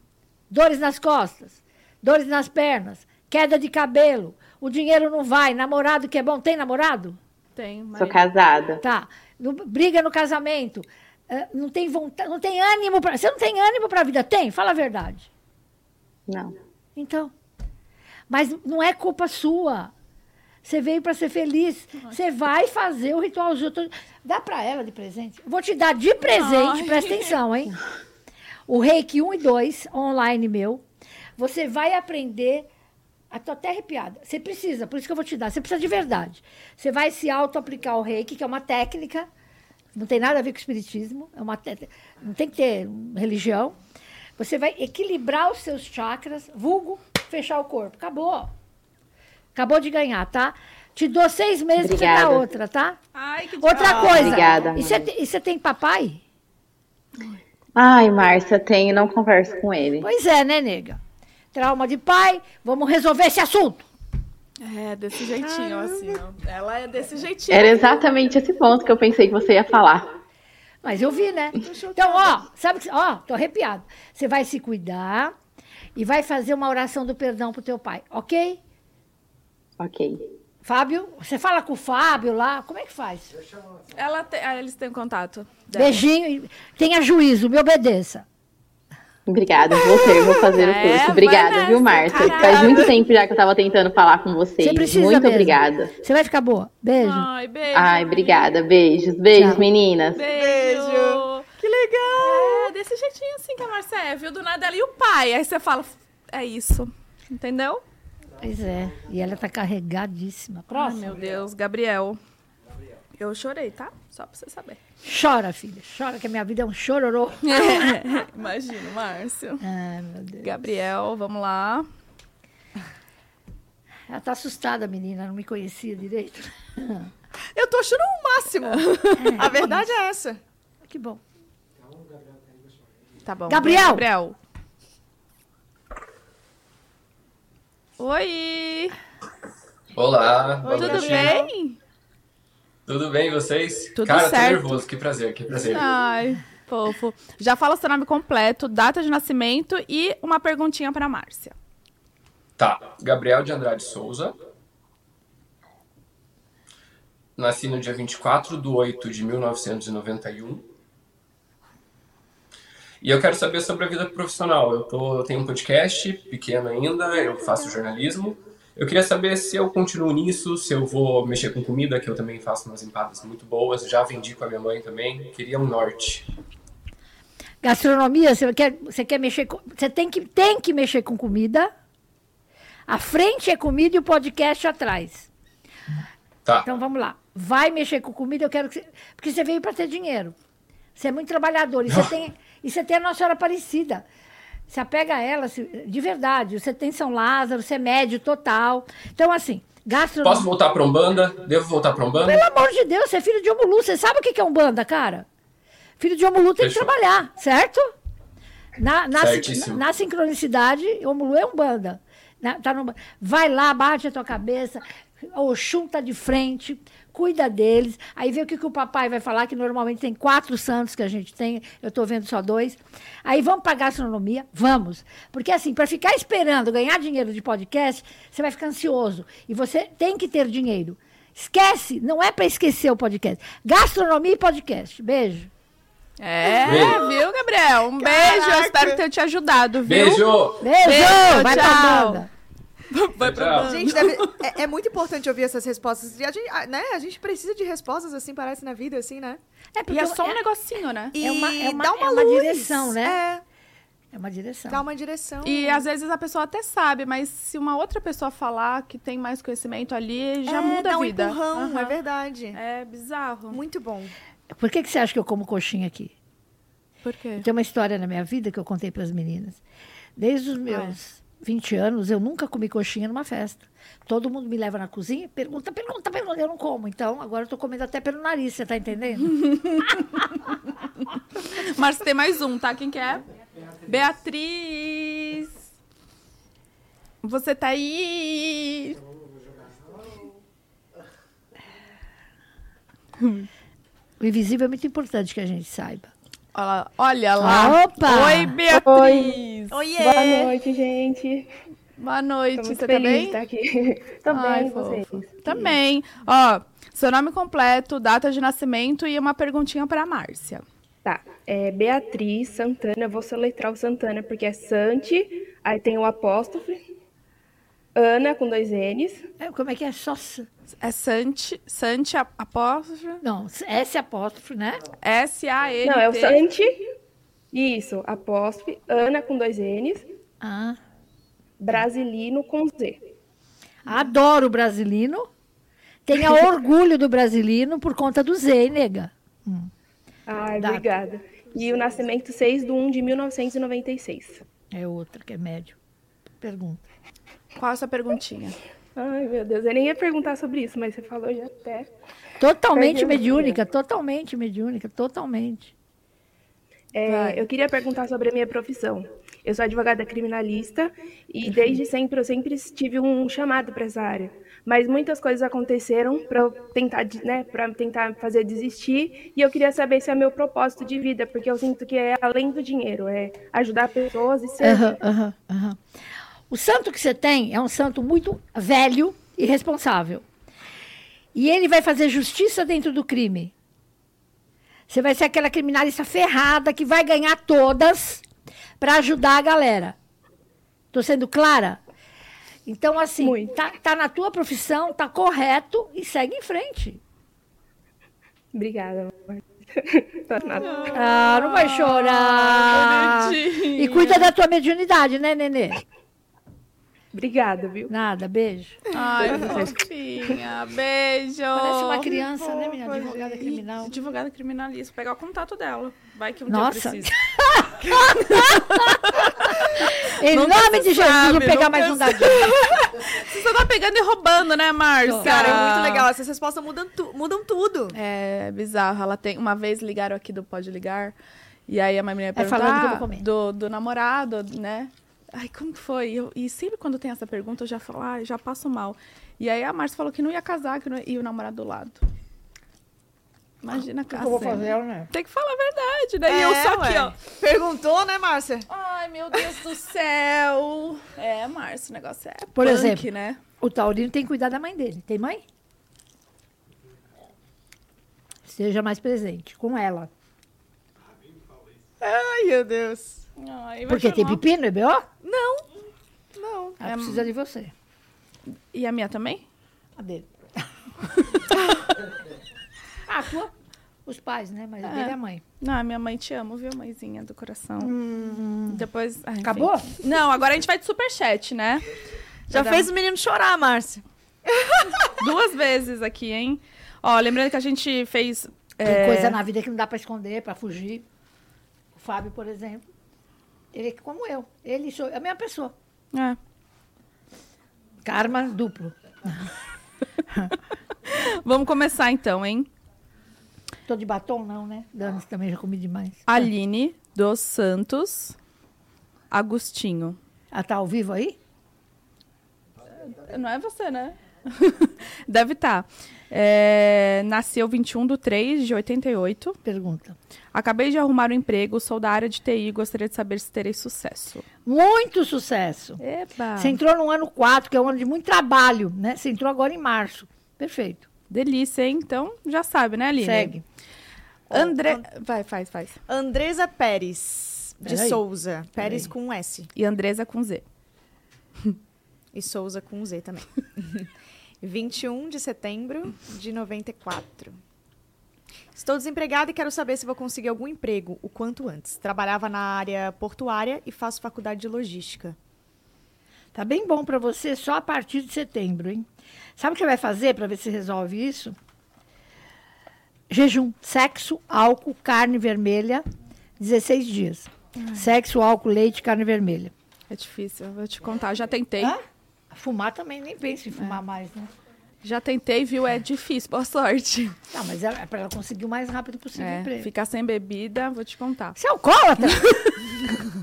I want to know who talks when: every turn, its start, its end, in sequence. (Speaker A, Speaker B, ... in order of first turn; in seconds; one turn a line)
Speaker A: 0.5-7.2
Speaker B: 7.5-8.2
Speaker C: 7.9-8.8
Speaker A: 8.8-15.3
Speaker C: 16.3-16.5
Speaker A: 16.9-17.3
Speaker A: 18.3-19.9
Speaker A: 20.6-27.8
Speaker B: 26.2-27.3
Speaker A: 28.7-30.8
Speaker A: 31.4-32.7
Speaker A: 33.3-39.3
Speaker A: 39.9-43.8
Speaker A: 44.4-48.5
Speaker A: 49.5-53.0
Speaker C: 51.8-52.4
Speaker B: 53.1-54.6
Speaker A: 53.6-56.2
Speaker D: 53.8-54.4
Speaker C: 54.0-55.1
Speaker C: 57.8-60.1
Speaker A: 60.0-61.0
Speaker A: 61.5-63.9
Speaker B: 64.6-68.0
Speaker D: 65.4-66.2
Speaker C: 67.5-70.1
Speaker A: 70.8-75.3
Speaker D: 71.6-72.4
Speaker A: 76.0-78.6
Speaker C: 79.8-80.2
Speaker A: 80.6-83.4
Speaker B: 83.9-86.0
Speaker A: 85.7-88.2
Speaker C: 89.3-95.9
Speaker B: 89.8-92.9
Speaker D: 92.3-92.9
Speaker A: 94.6-97.3
Speaker B: 97.0-98.5
Speaker C: 97.7-100.2
Speaker A: 99.3-99.6
Speaker B: 100.1-101.4
Speaker D: 100.3-102.7
Speaker B: 102.2-107.8
Speaker A: 108.4-111.4
Speaker B: 110.7-112.2
Speaker B: 113.2-114.8
Speaker A: 115.0-118.0
Speaker B: 117.4-119.6
Speaker A: 119.6-120.6
Speaker B: 120.4-121.9
Speaker A: 124.1-127.1
Speaker D: 127.5-130.4
Speaker B: 128.7-129.5
Speaker A: 129.2-129.8
Speaker A: 130.8-131.2
Speaker B: 133.2-134.3
Speaker A: 133.5-134.1
Speaker B: 138.0-138.9
Speaker E: 139.9-141.3
Speaker D: 140.6-141.5
Speaker B: 140.7-141.8
Speaker E: 142.8-145.8
Speaker B: 143.9-144.8
Speaker B: 145.6-151.5
Speaker E: 152.6-154.4
Speaker E: 157.4-160.7
Speaker E: 163.0-176.2
Speaker A: 177.6-181.7
Speaker A: 182.9-185.3
Speaker A: 186.6-190.3
Speaker A: 190.9-194.0
Speaker A: 194.7-200.5
Speaker E: 200.2-202.4
Speaker A: 202.2-205.2
Speaker A: 206.0-207.9
Speaker E: 206.6-206.9
Speaker A: 208.8-235.5
Speaker E: 209.2-209.8
Speaker B: 236.2-240.3
Speaker E: 236.6-237.0
Speaker D: 238.0-239.0
Speaker E: 239.8-241.4
Speaker A: 240.6-242.3
Speaker B: 240.8-242.2
Speaker B: 242.9-244.4
Speaker E: 243.2-243.7
Speaker D: 243.5-249.4
Speaker A: 249.7-250.4
Speaker B: 249.9-251.1
Speaker D: 251.1-253.4
Speaker A: 251.2-253.2
Speaker A: 254.1-254.8
Speaker D: 254.7-255.8
Speaker B: 255.4-261.9
Speaker D: 260.5-262.6
Speaker B: 262.5-263.6
Speaker D: 263.5-264.1
Speaker A: 264.5-266.1
Speaker B: 267.0-267.5
Speaker A: 267.4-269.6
Speaker A: 270.2-279.5
Speaker B: 279.3-280.5
Speaker B: 281.0-283.2
Speaker B: 283.8-285.6
Speaker B: 287.2-289.0
Speaker B: 293.2-293.5
Speaker A: 294.2-296.1
Speaker B: 296.5-299.8
Speaker A: 297.4-298.6
Speaker F: 298.7-299.4
Speaker D: 299.7-300.5
Speaker F: 300.0-301.5
Speaker B: 302.0-303.4
Speaker F: 302.6-305.7
Speaker B: 304.3-310.6
Speaker F: 311.0-316.8
Speaker F: 317.9-319.2
Speaker A: 319.4-320.5
Speaker B: 320.8-323.2
Speaker A: 323.2-324.9
Speaker B: 325.0-326.4
Speaker F: 325.8-326.8
Speaker F: 327.5-330.1
Speaker A: 330.4-330.8
Speaker F: 331.6-333.0
Speaker A: 333.8-335.3
Speaker A: 336.1-339.7
Speaker F: 340.3-344.4
Speaker A: 340.6-340.9
Speaker A: 344.7-345.8
Speaker A: 346.4-346.8
Speaker B: 347.6-348.6
Speaker F: 348.9-351.9
Speaker A: 352.4-355.7
Speaker F: 352.7-353.6
Speaker F: 356.9-375.0
Speaker B: 357.1-357.4
Speaker A: 361.4-361.8
Speaker A: 374.6-375.8
Speaker A: 376.5-380.2
Speaker A: 381.3-383.5
Speaker A: 384.9-388.2
Speaker A: 388.8-389.9
Speaker A: 390.9-391.8
Speaker A: 392.6-397.0
Speaker F: 393.2-393.6
Speaker F: 398.5-401.0
Speaker B: 400.6-404.3
Speaker A: 400.9-405.8
Speaker F: 407.1-407.9
Speaker A: 407.9-408.8
Speaker B: 408.9-412.1
Speaker A: 411.5-413.9
Speaker D: 412.2-413.4
Speaker B: 413.4-417.1
Speaker A: 416.5-422.5
Speaker B: 418.2-426.1
Speaker A: 425.0-425.6
Speaker D: 425.2-427.9
Speaker B: 427.9-431.1
Speaker B: 431.7-442.0
Speaker A: 432.3-433.2
Speaker B: 443.6-447.1
Speaker A: 444.1-445.1
Speaker D: 446.2-448.6
Speaker B: 448.7-453.4
Speaker A: 452.5-453.1
Speaker A: 453.6-455.4
Speaker A: 458.4-460.1
Speaker D: 462.0-463.2
Speaker B: 463.4-464.4
Speaker A: 463.9-465.1
Speaker D: 465.2-465.7
Speaker D: 466.3-466.8
Speaker A: 466.8-467.7
Speaker B: 466.8-467.3
Speaker B: 468.7-469.4
Speaker A: 470.0-470.6
Speaker A: 473.1-473.5
Speaker A: 474.1-475.4
Speaker B: 474.8-477.9
Speaker A: 477.8-478.9
Speaker B: 478.7-481.9
Speaker A: 479.4-479.9
Speaker B: 482.5-482.9
Speaker D: 482.5-485.1
Speaker B: 485.1-489.4
Speaker A: 488.8-491.0
Speaker A: 491.9-492.8
Speaker A: 493.7-495.7
Speaker B: 496.1-496.4
Speaker A: 498.0-499.5
Speaker B: 501.0-502.7
Speaker A: 503.9-506.5
Speaker B: 506.3-508.4
Speaker B: 509.3-510.2
Speaker A: 510.5-511.4
Speaker B: 513.0-519.6
Speaker A: 519.6-520.1
Speaker B: 520.5-524.4
Speaker A: 524.6-526.0
Speaker B: 526.0-526.8
Speaker A: 526.5-531.0
Speaker B: 531.3-533.6
Speaker A: 533.2-533.6
Speaker D: 534.5-535.0
Speaker B: 534.5-536.0
Speaker D: 536.1-539.7
Speaker A: 537.8-538.2
Speaker A: 538.8-539.1
Speaker B: 539.7-540.6
Speaker D: 542.3-544.1
Speaker D: 544.6-547.6
Speaker D: 548.7-555.4
Speaker A: 556.5-561.5
Speaker A: 563.3-566.0
Speaker A: 566.6-569.7
Speaker B: 570.1-572.0
Speaker A: 571.8-574.5
Speaker B: 575.0-577.4
Speaker A: 577.5-579.9
Speaker B: 579.3-581.6
Speaker A: 581.6-582.5
Speaker B: 582.2-582.9